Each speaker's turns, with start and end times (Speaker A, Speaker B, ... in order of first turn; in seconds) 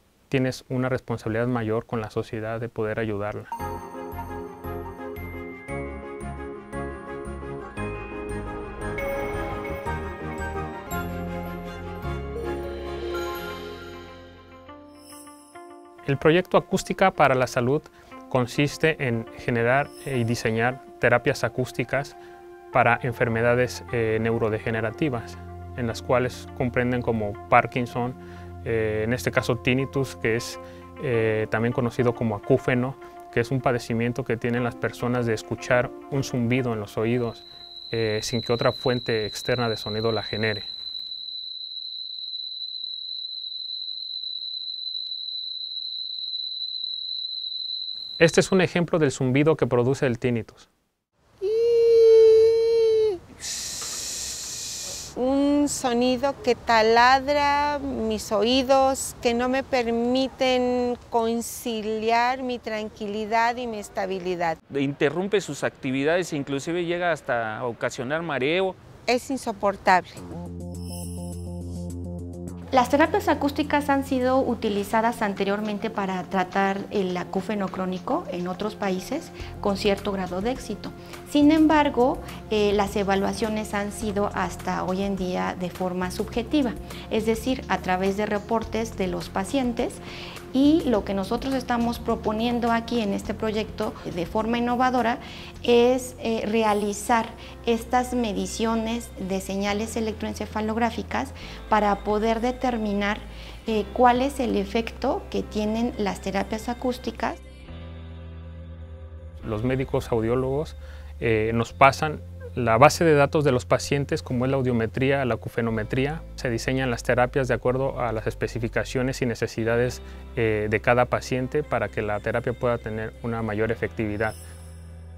Speaker A: 0.3-3.5, 16.1-22.2, 22.7-40.7, 48.2-50.7, 109.4-124.4
Speaker B: 51.4-53.1, 55.1-64.6, 69.0-70.2
Speaker C: 64.7-68.8
Speaker D: 72.7-90.0, 90.5-107.4